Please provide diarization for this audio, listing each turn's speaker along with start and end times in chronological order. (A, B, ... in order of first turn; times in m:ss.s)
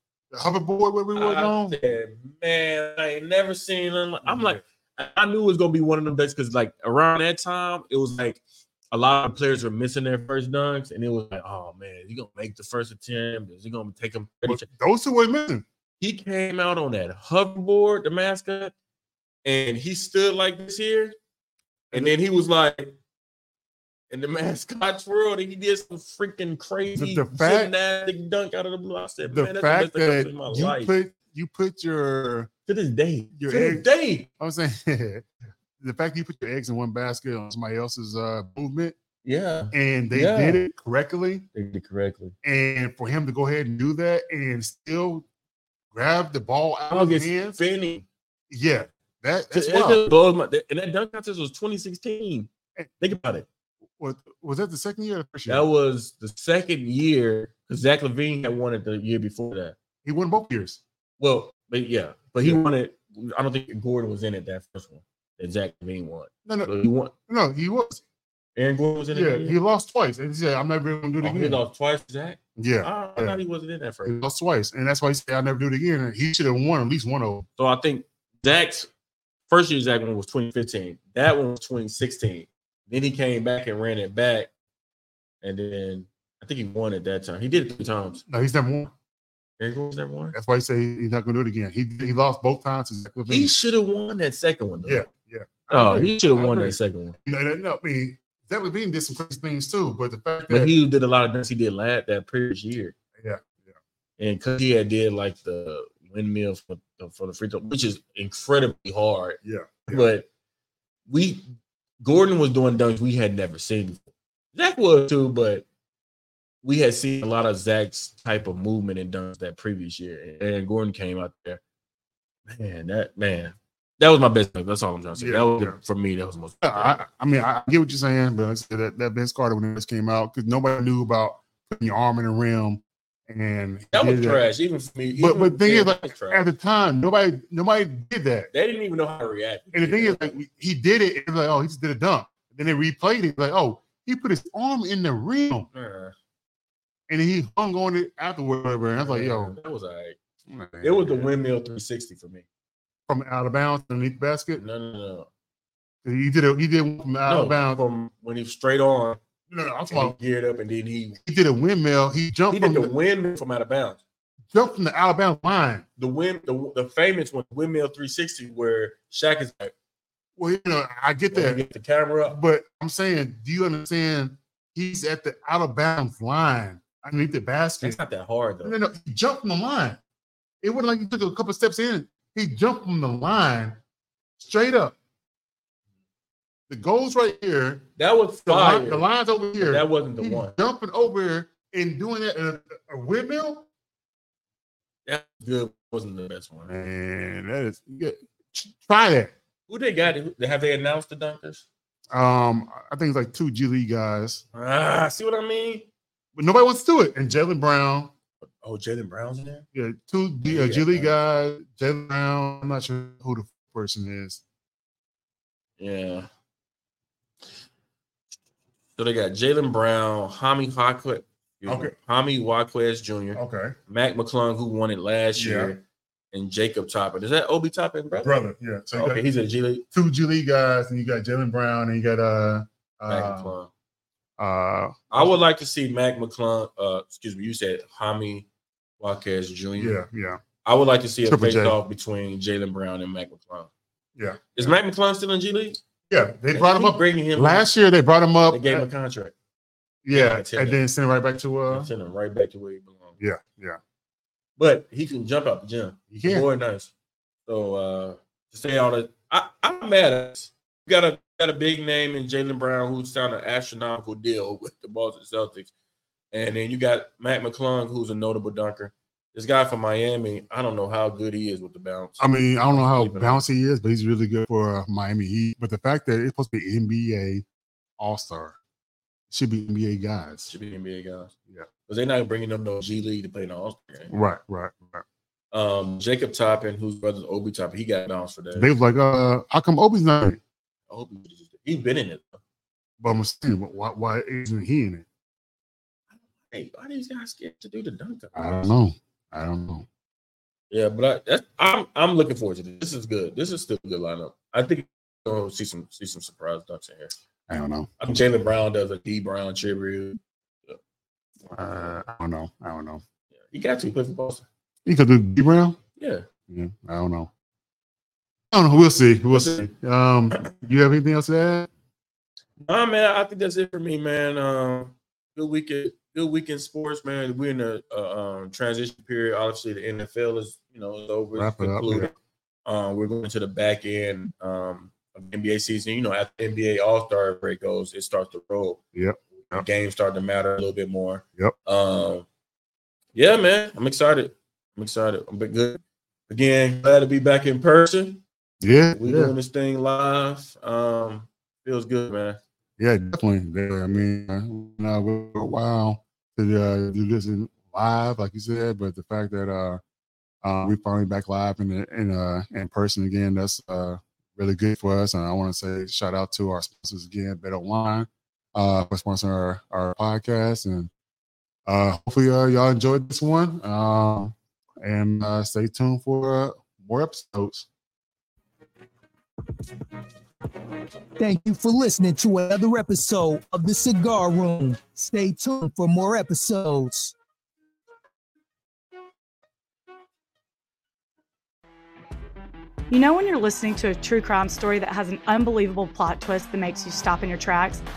0:00.3-0:01.8 A
0:01.1-0:08.4 B
0:04.2-0:04.6 A
0:08.9-0:14.7 B
0:14.4-0:15.6 A
0:16.0-0:18.7 B
0:19.4-0:21.2 B
0:21.9-0:22.9 B
0:24.1-0:30.9 B
0:26.9-0:27.7 A
0:29.3-0:32.5 A
0:32.7-0:34.3 B
0:33.4-0:33.8 A
0:34.4-0:35.2 A
0:35.8-0:38.9 A
0:39.2-0:40.6 B
0:39.7-0:41.4 A
0:41.5-0:42.3 B
0:42.4-0:45.2 A
0:45.9-0:47.6 A
0:46.9-0:48.0 B
0:48.5-0:50.0 A
0:49.5-0:53.5 B
0:54.0-0:55.6 A
0:55.5-0:59.8 B
1:00.0-1:00.8 A
1:01.2-1:07.1 B
1:06.4-1:06.7 A
1:07.3-1:08.0 A
1:08.6-1:09.6 B
1:09.1-1:11.6 A
1:11.2-1:14.2 B
1:12.6-1:13.4 A
1:14.0-1:17.4 A
1:17.6-1:18.9 B
1:19.5-1:24.5 B
1:25.4-1:28.2 B
1:28.3-1:28.9 A
1:29.6-1:30.4 B
1:30.3-1:33.5 A
1:33.3-1:35.0 B
1:34.8-1:40.7 A
1:35.7-1:37.2 B
1:40.5-1:42.9 B
1:43.2-1:43.8 A
1:44.2-1:50.3 B
1:49.4-1:50.0 A
1:51.1-1:51.5 B
1:52.0-1:55.6 B
1:56.6-2:01.6 B
2:02.5-2:07.0 B
2:05.2-2:05.8 A
2:06.6-2:14.4 A
2:13.9-2:16.4 B
2:15.2-2:18.5 A
2:18.5-2:20.4 B
2:19.7-2:25.7 A
2:25.7-2:26.1 B
2:27.1-2:29.5 A
2:29.0-2:30.2 B
2:30.5-2:31.3 A
2:30.8-2:32.4 B
2:33.1-2:34.6 A
2:34.6-2:35.3 B
2:36.0-2:37.8 A
2:37.2-2:39.2 B
2:39.5-2:40.1 A
2:39.9-2:41.2 B
2:41.2-2:42.9 A
2:42.5-2:44.0 B
2:44.5-2:45.8 A
2:46.0-2:49.7 B
2:50.4-2:51.6 A
2:51.3-2:52.4 B
2:52.3-2:58.0 A
2:57.8-2:58.8 B
2:58.6-3:00.0 A
3:00.6-3:03.8 A
3:04.4-3:05.0 A
3:06.7-3:07.8 A
3:08.0-3:09.1 B
3:08.4-3:13.7 A
3:09.6-3:10.6 B
3:15.0-3:16.7 B
3:16.7-3:19.3 A
3:19.7-3:21.6 B
3:22.1-3:24.4 A
3:24.5-3:25.9 B
3:26.4-3:28.1 A
3:28.4-3:29.6 B
3:29.7-3:34.4 A
3:30.4-3:31.1 B
3:35.8-3:36.3 B
3:39.0-3:48.3 B
3:41.6-3:41.9 A
3:43.3-3:43.8 A
3:45.4-3:45.7 A
3:48.2-3:49.2 A
3:48.9-3:49.8 B
3:49.9-3:53.5 A
3:53.1-3:53.7 B
3:54.4-3:55.4 A
3:55.1-3:58.5 B
3:59.0-4:00.0 B
3:59.7-4:00.4 A
4:00.6-4:03.7 B
4:01.3-4:01.8 A
4:04.2-4:04.7 A
4:04.5-4:05.8 B
4:06.1-4:08.8 A
4:06.5-4:07.7 B
4:08.5-4:09.3 B
4:10.0-4:11.9 A
4:10.1-4:10.8 B
4:11.7-4:13.2 B
4:13.2-4:13.8 A
4:14.6-4:16.9 B
4:16.1-4:16.5 A
4:17.4-4:25.7 B
4:26.3-4:33.4 B
4:32.2-4:37.4 A
4:38.0-4:38.6 A
4:39.3-4:40.5 A
4:40.5-4:41.3 B
4:41.9-4:44.1 B
4:44.1-4:45.0 A
4:45.5-4:48.7 B
4:48.5-4:50.4 A
4:50.9-4:52.4 B
4:53.0-4:55.0 A
4:56.4-4:58.7 B
4:58.3-4:59.9 A
5:00.7-5:07.1 B
5:07.5-5:07.9 A
5:08.0-5:10.8 B
5:11.4-5:13.0 A
5:13.3-5:14.4 B
5:14.8-5:15.8 A
5:16.0-5:16.3 B
5:16.5-5:17.3 A
5:18.5-5:21.7 A
5:19.3-5:19.6 B
5:22.6-5:32.1 B
5:31.3-5:32.1 A
5:32.6-5:38.8 B
5:38.9-5:39.6 A
5:39.5-5:42.2 B
5:43.1-5:48.2 B
5:48.6-5:49.3 A
5:48.9-5:52.4 B
5:52.8-5:59.8 A
6:00.4-6:10.9 A
6:11.7-6:17.6 A
6:21.2-6:27.1 C
6:32.9-6:37.8 D